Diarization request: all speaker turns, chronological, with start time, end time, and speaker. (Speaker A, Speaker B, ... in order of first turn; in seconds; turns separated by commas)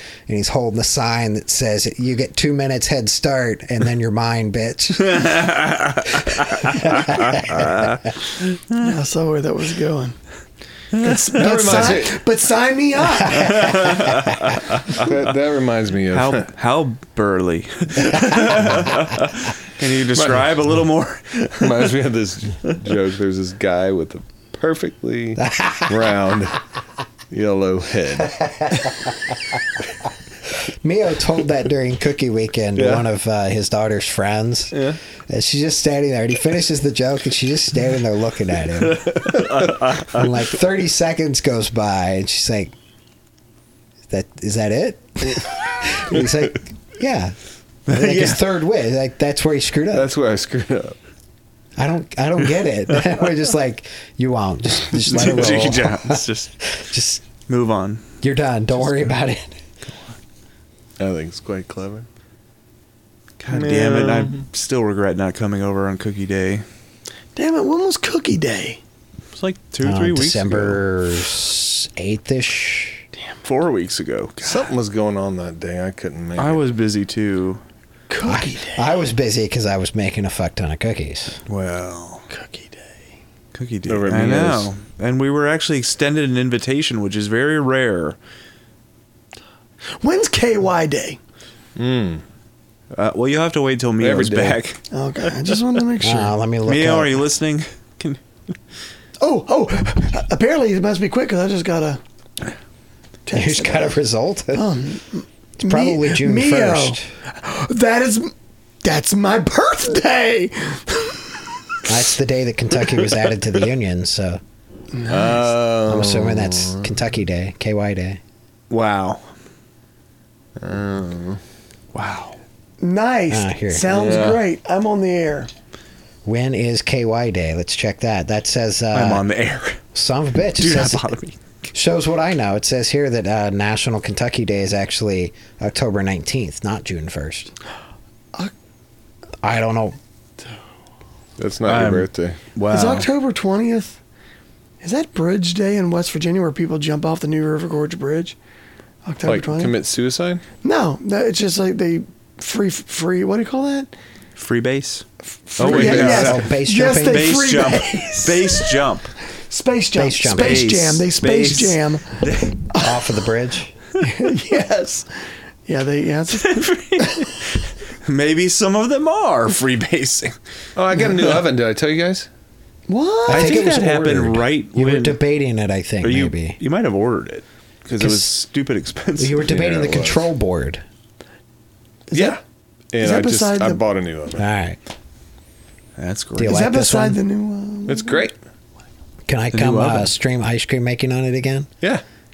Speaker A: 0.3-5.5, Speaker B: 5.0-8.0, Speaker A: 6.0-7.9, Speaker B: 8.6-8.8, Speaker C: 8.8-10.2, Speaker B: 10.9-11.9, Speaker C: 11.0-13.8, Speaker D: 11.3-12.2, Speaker B: 13.3-15.1, Speaker A: 13.4-13.7, Speaker D: 14.9-16.5, Speaker B: 16.1-21.9, Speaker D: 20.1-20.5, Speaker D: 21.6-26.6, Speaker A: 25.4-26.0, Speaker D: 27.3-28.7, Speaker A: 28.2-29.3, Speaker A: 30.6-39.3, Speaker D: 32.8-33.0, Speaker B: 39.0-40.3, Speaker A: 40.0-42.7, Speaker A: 44.1-47.4, Speaker B: 47.9-48.4, Speaker A: 47.9-50.1, Speaker D: 49.9-51.0, Speaker A: 51.8-57.2, Speaker B: 55.0-56.5, Speaker B: 57.5-58.0, Speaker A: 58.2-59.5, Speaker D: 61.0-62.1, Speaker B: 63.4-66.7, Speaker D: 63.5-64.4, Speaker C: 67.3-68.8, Speaker B: 69.3-70.8, Speaker A: 69.8-73.0, Speaker B: 73.4-74.7, Speaker D: 74.4-76.6, Speaker B: 76.4-77.6, Speaker C: 78.1-78.9, Speaker A: 78.2-81.4, Speaker B: 81.5-82.2, Speaker C: 82.3-83.0, Speaker B: 83.5-88.2, Speaker D: 83.9-84.7, Speaker C: 90.0-91.2, Speaker D: 91.8-92.2, Speaker B: 92.9-94.8, Speaker D: 94.0-94.6, Speaker C: 94.9-96.3, Speaker A: 96.0-97.2, Speaker B: 96.7-98.2, Speaker C: 99.2-102.0, Speaker C: 103.2-104.0, Speaker A: 103.3-104.7, Speaker C: 104.5-108.3, Speaker A: 105.6-107.0, Speaker C: 108.8-111.9, Speaker A: 111.9-114.4, Speaker C: 114.9-115.4, Speaker D: 115.1-116.9, Speaker A: 115.8-118.2, Speaker B: 118.7-119.3, Speaker D: 120.6-121.4, Speaker B: 121.9-122.4, Speaker C: 122.8-125.5, Speaker A: 123.3-123.9, Speaker D: 123.9-124.4, Speaker A: 126.2-129.2, Speaker B: 128.9-129.8, Speaker A: 129.9-131.1, Speaker B: 130.6-131.4, Speaker A: 131.7-137.5, Speaker A: 139.4-140.0, Speaker D: 141.4-142.4, Speaker B: 141.7-143.1, Speaker C: 142.7-144.0, Speaker C: 144.8-148.3, Speaker C: 149.0-149.8, Speaker D: 149.2-150.4, Speaker C: 150.6-153.9, Speaker B: 154.3-155.1, Speaker C: 155.5-158.7, Speaker B: 155.6-156.5, Speaker D: 155.6-156.3, Speaker A: 155.9-157.4, Speaker B: 157.0-159.1, Speaker C: 159.5-163.1, Speaker A: 159.9-160.7, Speaker B: 160.3-162.6, Speaker A: 162.8-163.7, Speaker C: 164.0-165.1, Speaker C: 165.7-167.3, Speaker B: 166.3-170.3, Speaker D: 170.8-172.3, Speaker C: 172.9-173.6, Speaker A: 173.3-176.6, Speaker B: 173.3-175.2, Speaker B: 176.0-180.2, Speaker A: 178.0-178.3, Speaker A: 179.2-180.8, Speaker C: 182.1-182.4, Speaker D: 182.1-182.4, Speaker D: 182.9-184.4, Speaker C: 183.0-183.8, Speaker A: 184.4-184.8, Speaker B: 186.0-186.6, Speaker A: 186.4-187.2, Speaker C: 186.4-188.3, Speaker D: 187.9-188.3, Speaker A: 189.2-191.7, Speaker B: 189.5-190.1